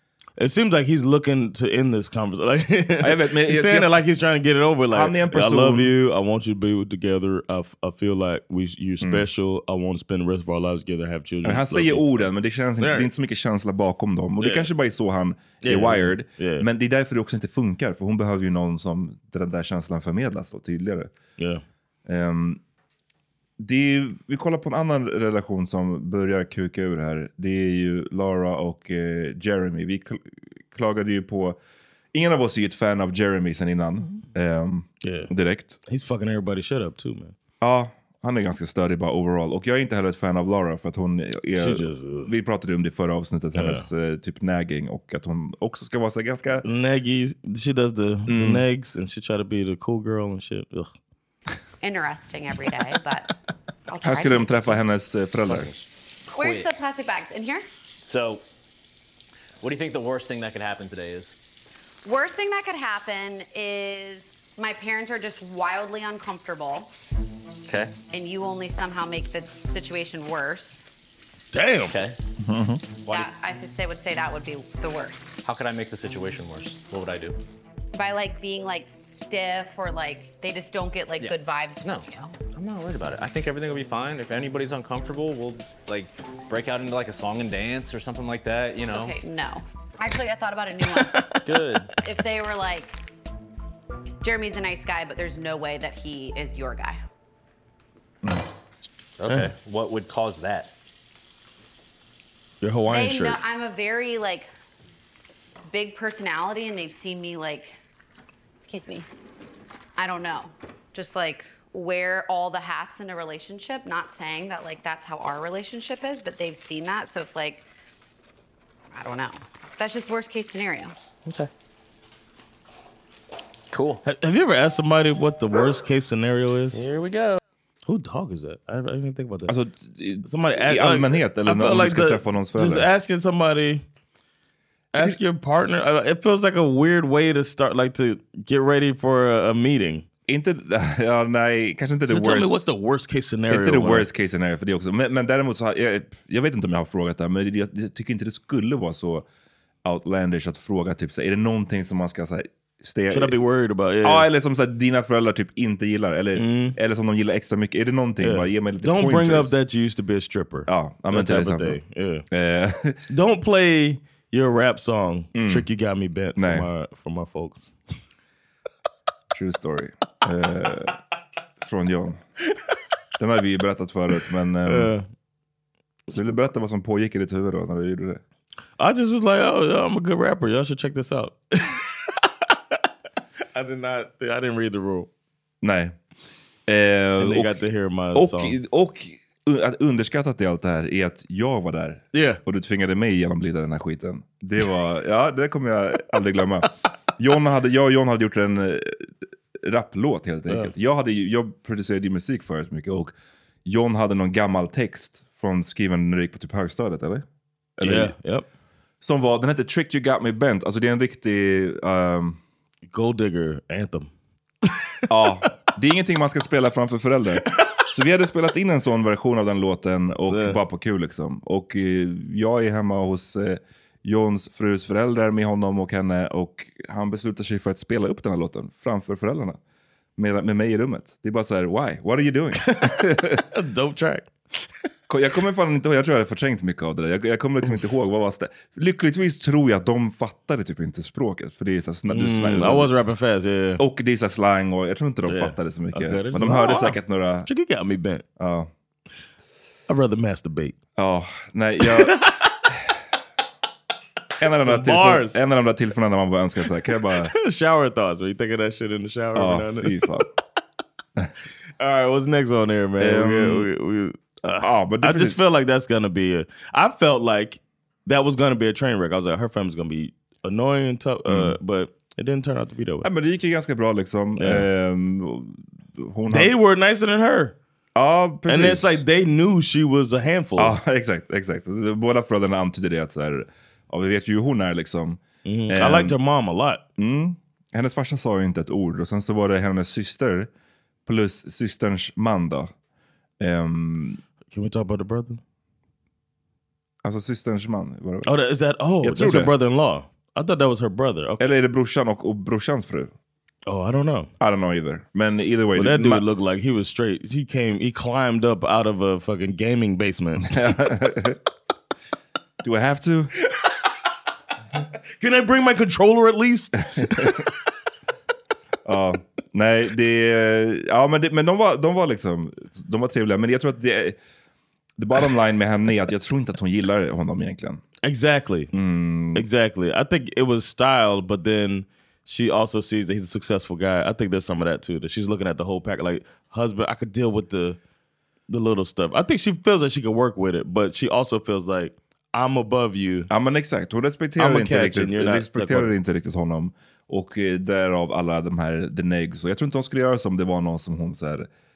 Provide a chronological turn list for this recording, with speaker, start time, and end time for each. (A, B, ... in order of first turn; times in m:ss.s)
0:00.4-0:13.1 A
0:03.0-0:03.9 B
0:04.9-0:05.9 B
0:11.4-0:21.1 B
0:14.4-0:14.7 A
0:15.6-0:16.7 A
0:21.4-0:21.6 A
0:22.1-0:22.6 B
0:23.6-0:31.6 B
0:32.1-0:35.8 B
0:35.0-0:35.3 A
0:35.9-0:37.4 A
0:37.6-0:46.7 B
0:41.6-0:42.3 A
0:43.6-0:43.9 A
0:46.6-0:51.0 A
0:48.3-0:48.6 B
0:51.8-0:53.3 C
0:53.9-0:54.6 C
0:54.0-0:55.7 B
0:55.5-0:55.8 D
0:56.3-0:57.7 C
0:56.4-0:56.7 D
0:58.0-0:58.4 D
0:59.6-1:01.4 D
1:02.0-1:06.9 C
1:07.7-1:07.9 D
1:08.1-1:10.9 C
1:11.5-1:11.9 A
1:11.8-1:12.2 D
1:12.4-1:12.8 B
1:13.0-1:13.4 D
1:13.1-1:15.4 C
1:15.4-1:17.4 D
1:17.9-1:22.4 C
1:21.2-1:29.2 D
1:28.9-1:31.4 C
1:31.4-1:31.9 D
1:32.0-1:33.0 C
1:34.2-1:37.0 C
1:39.2-1:40.7 D
1:39.3-1:39.5 A
1:42.6-1:43.4 A
1:42.9-1:44.5 C
1:45.7-1:47.8 C
1:48.6-1:49.1 C
1:50.0-1:57.7 C
1:58.9-2:01.0 C
2:03.7-2:04.0 D
2:04.0-2:06.9 A
2:06.7-2:07.4 D
2:07.8-2:09.5 A
2:09.5-2:12.9 B
2:10.2-2:13.8 A
2:14.9-2:20.0 A
2:20.3-2:22.5 B
2:22.0-2:24.1 A
2:23.5-2:29.2 B
2:29.8-2:33.4 B
2:33.1-2:34.3 A
2:34.0-2:39.6 B
2:36.4-2:36.8 A
2:38.2-2:42.2 A
2:40.7-2:41.8 B
2:42.3-2:43.0 B
2:43.1-2:47.7 A
2:45.4-2:45.7 B
2:46.4-2:46.7 B
2:49.3-2:51.0 B
2:51.6-2:52.2 B
2:53.2-2:54.9 B
2:54.7-2:55.0 A
2:56.1-2:58.2 B
2:58.8-3:02.1 A
3:03.6-3:05.1 A
3:05.6-3:06.0 B
3:06.7-3:07.6 B
3:07.2-3:08.6 A
3:08.2-3:23.1 B
3:12.1-3:12.4 A
3:23.6-3:27.2 B
3:27.8-3:28.1 B
3:27.8-3:28.4 A
3:29.0-3:32.4 B
3:32.9-3:34.1 A
3:35.1-3:49.6 B
3:40.3-3:40.6 A
3:50.2-3:53.4 B
3:52.7-3:53.0 A
3:53.5-3:54.6 A
3:55.1-4:02.9 B
4:02.1-4:03.8 A
4:03.8-4:07.5 B
4:05.3-4:08.2 A
4:08.4-4:08.7 B
4:09.9-4:10.8 A
4:11.0-4:12.3 B
4:11.8-4:12.5 A
4:14.4-4:17.3 B
4:14.6-4:15.4 A
4:17.1-4:20.1 A
4:19.4-4:20.3 B
4:21.8-4:33.1 A
4:23.0-4:23.7 B
4:24.6-4:25.4 B
4:31.3-4:31.6 B
4:33.0-4:36.5 B
4:34.4-4:34.7 A
4:36.3-4:37.6 A
4:38.0-4:39.0 B
4:38.5-4:40.8 A
4:40.6-4:46.2 B
4:45.4-4:46.8 A
4:47.0-4:50.5 B
4:51.1-4:52.7 B
4:53.4-4:54.2 B
4:54.5-4:55.4 A
4:57.0-4:58.3 B
4:58.2-5:01.4 A
4:59.0-4:59.5 B
5:01.4-5:03.1 B
5:03.7-5:04.3 A
5:04.4-5:06.2 B
5:05.8-5:10.6 A
5:10.5-5:11.4 B
5:12.6-5:13.3 B
5:15.2-5:17.5 A
5:17.0-5:17.4 B
5:18.8-5:24.2 B
5:25.0-5:27.8 B
5:28.0-5:28.7 A
5:28.7-5:29.5 B
5:29.4-5:37.8 A
5:38.5-5:43.3 A
5:43.3-5:51.5 B
5:44.4-5:45.9 A